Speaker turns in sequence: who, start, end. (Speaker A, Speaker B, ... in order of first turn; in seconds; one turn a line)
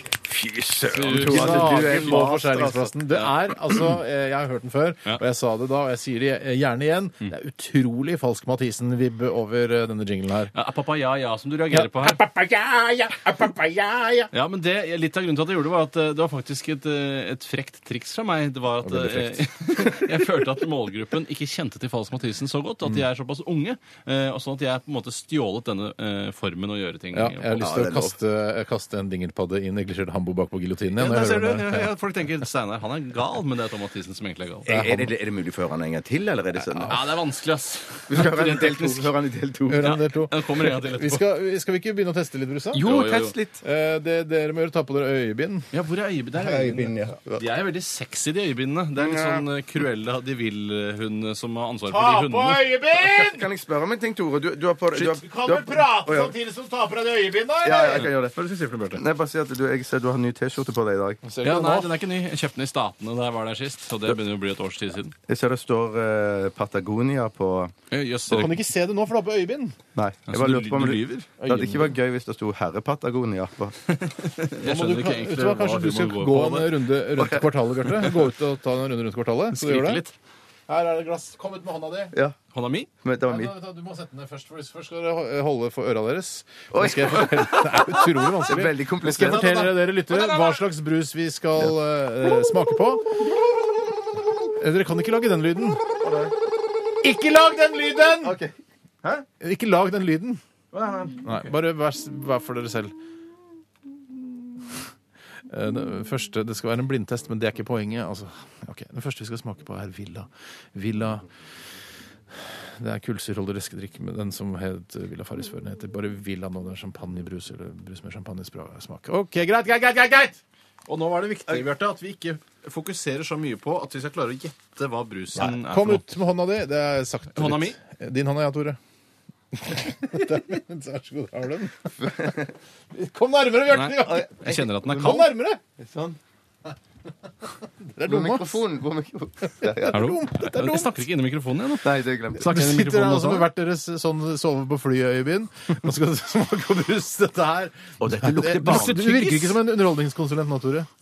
Speaker A: 0.2-3.0
Speaker B: 0.8-2.3
Speaker C: 1.0-10.5
Speaker B: 10.5-12.2
Speaker C: 11.7-14.3
Speaker B: 14.3-27.6
Speaker C: 18.8-19.5
Speaker C: 27.1-31.9
Speaker A: 27.6-28.1
Speaker B: 30.9-34.7
Speaker A: 34.6-37.0
Speaker C: 34.7-35.1
Speaker C: 36.7-37.0
Speaker B: 36.9-39.1
Speaker A: 38.1-39.9
Speaker C: 39.7-42.8
Speaker B: 39.8-41.2
Speaker A: 42.7-43.6
Speaker B: 42.8-43.4
Speaker C: 43.6-45.7
Speaker B: 45.7-52.6
Speaker A: 46.4-47.4
Speaker A: 49.0-49.4
Speaker C: 51.9-53.5
Speaker A: 53.0-56.3
Speaker C: 54.9-58.1
Speaker A: 57.6-58.3
Speaker B: 57.9-59.0
Speaker A: 58.9-61.2
Speaker C: 61.2-61.9
Speaker B: 61.4-65.1
Speaker A: 65.3-67.7
Speaker B: 67.9-68.6
Speaker C: 68.3-69.8
Speaker A: 69.9-73.8
Speaker B: 70.3-71.3
Speaker C: 71.4-71.9
Speaker B: 73.9-76.8
Speaker C: 74.6-80.0
Speaker A: 77.2-77.4
Speaker B: 79.5-80.1
Speaker C: 80.7-82.1
Speaker B: 82.5-82.9
Speaker A: 83.0-83.5
Speaker C: 83.3-93.0
Speaker A: 86.7-89.8
Speaker B: 90.1-90.6
Speaker C: 94.5-95.8
Speaker A: 96.0-96.3
Speaker C: 97.0-98.4
Speaker A: 98.2-98.5
Speaker C: 99.4-100.4
Speaker B: 100.7-101.5
Speaker C: 101.2-102.9
Speaker C: 104.6-104.8
Speaker C: 105.5-111.2
Speaker C: 112.3-120.4
Speaker B: 120.9-126.0
Speaker C: 125.3-128.8
Speaker B: 127.3-127.8
Speaker C: 129.5-132.4
Speaker A: 132.0-132.5
Speaker C: 132.9-135.6
Speaker B: 133.7-135.3
Speaker A: 134.0-135.2
Speaker A: 135.8-136.2
Speaker C: 137.8-138.6
Speaker A: 138.0-140.1
Speaker C: 139.6-141.0
Speaker B: 139.9-143.5
Speaker A: 141.8-142.6
Speaker C: 142.4-150.9
Speaker A: 148.0-149.5